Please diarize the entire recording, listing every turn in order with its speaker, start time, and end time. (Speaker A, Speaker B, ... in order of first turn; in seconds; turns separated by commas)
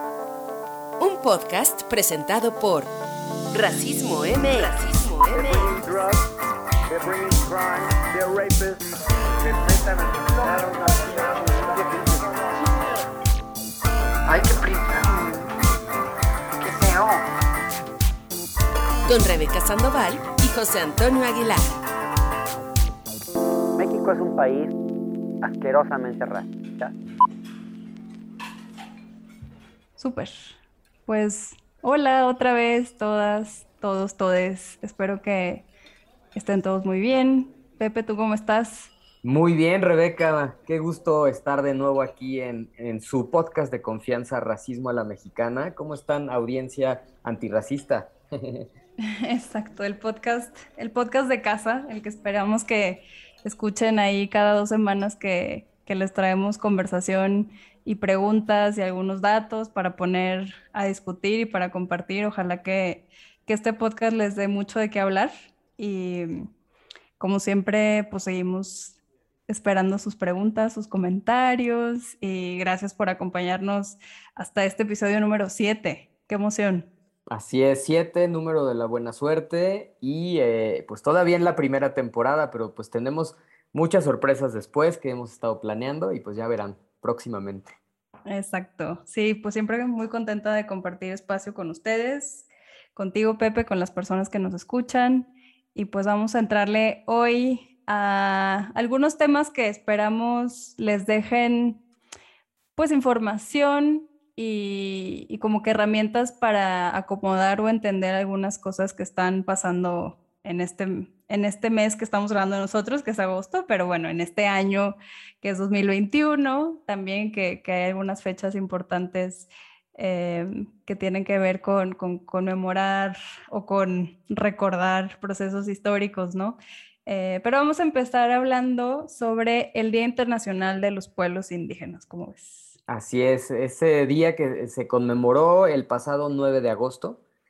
Speaker A: 1.0-2.9, Speaker A: 3.5-6.1, Speaker B: 5.4-6.0, Speaker B: 6.9-8.6, Speaker B: 9.4-12.4, Speaker B: 14.3-15.5, Speaker B: 16.6-17.2, Speaker A: 19.1-21.8, Speaker B: 23.8-24.8, Speaker B: 25.4-26.9, Speaker C: 30.0-30.6, Speaker C: 31.1-35.7, Speaker C: 36.4-38.9, Speaker D: 39.2-48.7, Speaker C: 49.1-66.5, Speaker C: 67.2-69.0, Speaker C: 69.5-76.9, Speaker D: 77.3-87.7, Speaker C: 88.3-101.8, Speaker C: 102.8-132.8, Speaker D: 132.9-137.2